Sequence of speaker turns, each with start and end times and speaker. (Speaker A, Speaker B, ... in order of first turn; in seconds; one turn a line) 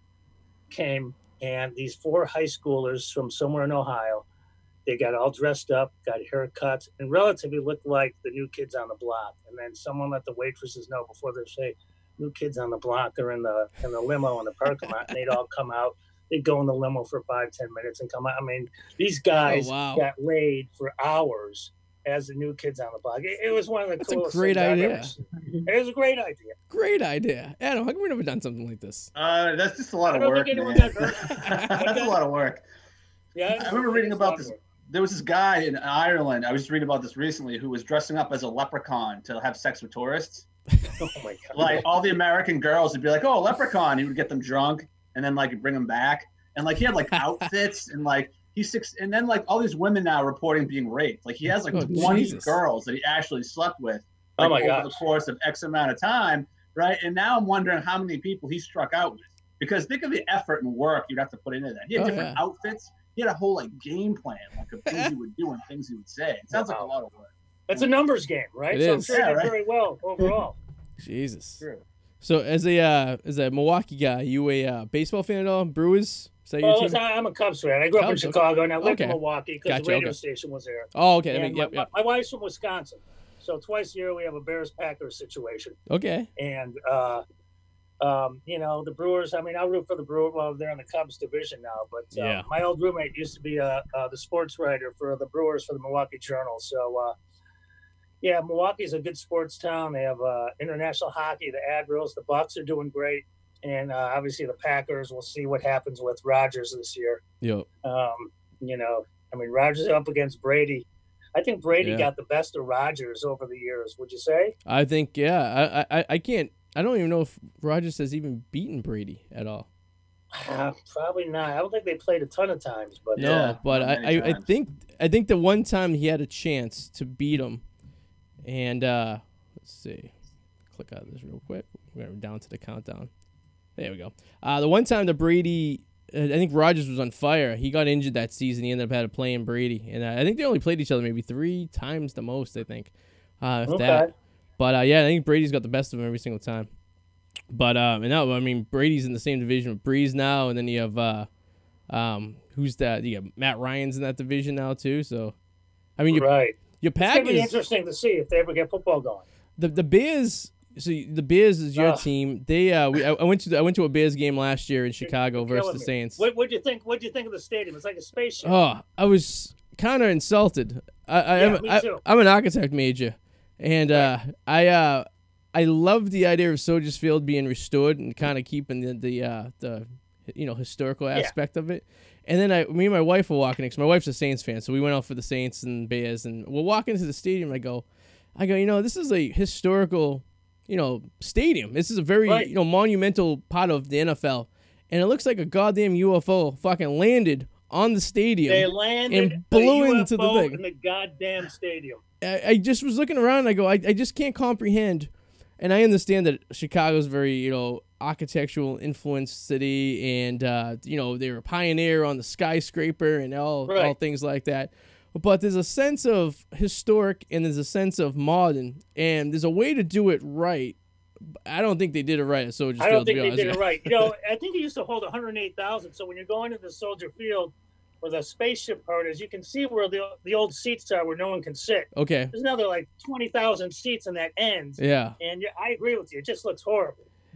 Speaker A: 0.7-4.2
Speaker A: 4.9-26.5
Speaker B: 19.5-20.1
Speaker B: 24.1-25.1
Speaker B: 26.7-29.1
Speaker C: 29.1-32.6
Speaker A: 30.1-32.2
Speaker B: 31.4-31.7
Speaker A: 33.4-34.6
Speaker C: 33.6-40.5
Speaker A: 41.0-41.8
Speaker C: 41.5-67.9
Speaker B: 51.7-52.6
Speaker A: 54.4-55.0
Speaker B: 62.0-62.4
Speaker B: 64.9-65.1
Speaker A: 66.5-66.9
Speaker A: 67.7-70.6
Speaker B: 68.7-69.2
Speaker C: 69.1-69.5
Speaker B: 71.0-71.6
Speaker B: 72.2-77.0
Speaker A: 76.6-85.8
Speaker B: 78.0-80.2
Speaker B: 80.9-81.9
Speaker B: 85.9-86.3
Speaker A: 86.4-87.2
Speaker A: 88.0-97.2
Speaker B: 92.2-92.5
Speaker A: 98.2-107.2
Speaker B: 107.4-107.7
Speaker A: 107.8-114.5
Speaker B: 111.8-112.1
Speaker B: 114.7-119.7
Speaker A: 120.3-123.3
Speaker C: 123.2-124.5
Speaker B: 123.2-127.6
Speaker B: 128.4-130.1
Speaker B: 130.7-133.1
Speaker B: 133.8-144.1
Speaker A: 143.7-144.1
Speaker B: 144.6-146.7
Speaker B: 147.5-151.3
Speaker B: 151.9-155.3
Speaker B: 156.0-157.6
Speaker A: 156.1-159.2
Speaker B: 159.6-166.2
Speaker A: 161.8-162.0
Speaker A: 165.0-168.6
Speaker B: 168.4-187.8
Speaker A: 171.4-172.0
Speaker B: 188.4-200.6
Speaker A: 198.5-202.0
Speaker B: 202.2-220.8
Speaker A: 213.7-213.9
Speaker B: 221.4-224.1
Speaker A: 222.8-237.0
Speaker B: 231.9-232.3
Speaker B: 234.8-235.2